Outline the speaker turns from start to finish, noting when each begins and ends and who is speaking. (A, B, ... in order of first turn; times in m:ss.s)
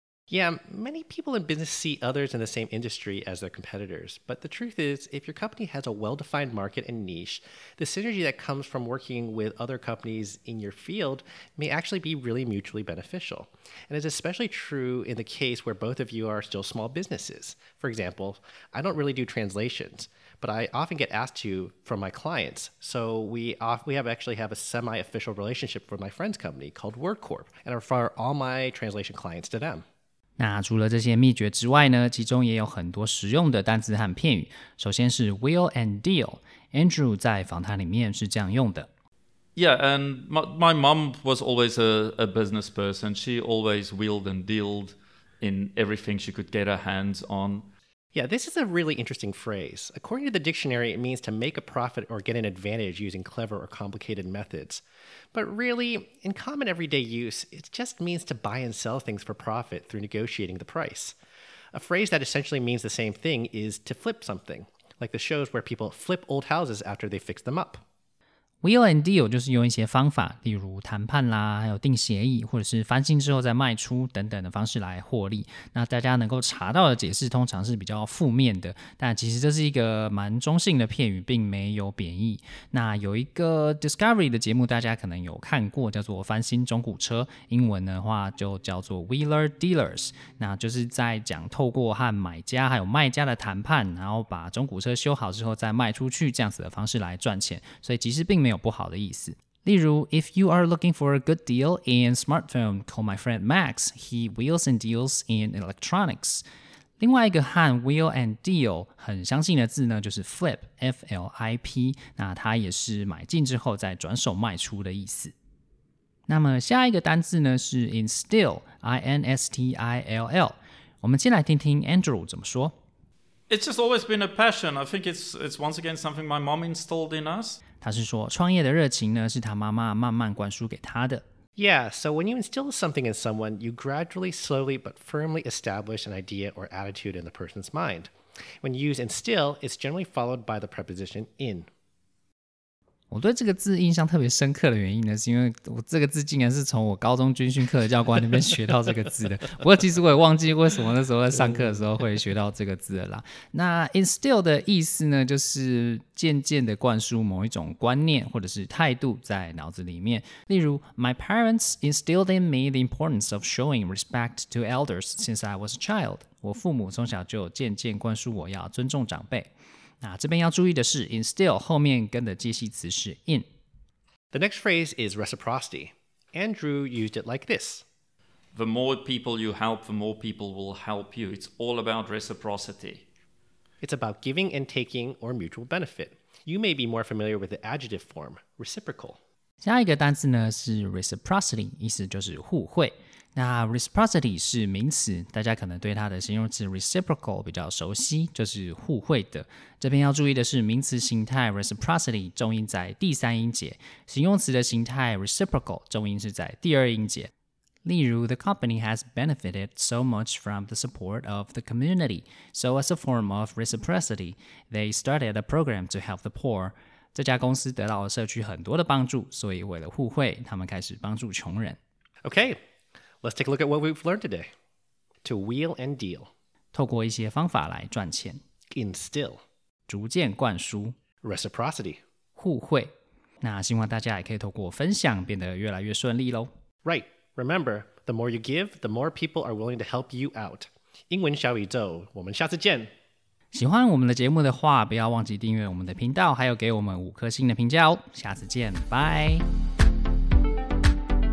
0:00.3-0:29.8 A
0:30.4-0:38.9 B
0:39.6-0:47.7 C
0:48.1-0:54.8 A
0:55.3-1:01.2 A
1:01.7-1:07.8 A
1:08.6-1:46.4 B
1:47.0-1:55.3 B
1:56.3-2:02.8 B
2:03.5-2:07.6 C
2:07.8-2:11.2 B
2:11.6-2:21.7 A
2:23.1-2:53.4 B
2:54.3-2:57.8 A
2:58.5-3:03.0 C
3:03.8-3:09.2 A
3:09.6-3:27.3 B
3:27.8-3:41.8 B
3:42.2-3:42.6 A
3:43.2-3:44.5 A
3:45.2-3:46.3 A
3:46.7-3:48.4 B
3:48.7-3:49.4 A
3:49.9-3:51.0 B
3:51.2-3:52.0 A
3:52.4-3:56.5 B
3:56.8-4:02.9 A
4:03.5-4:09.4 B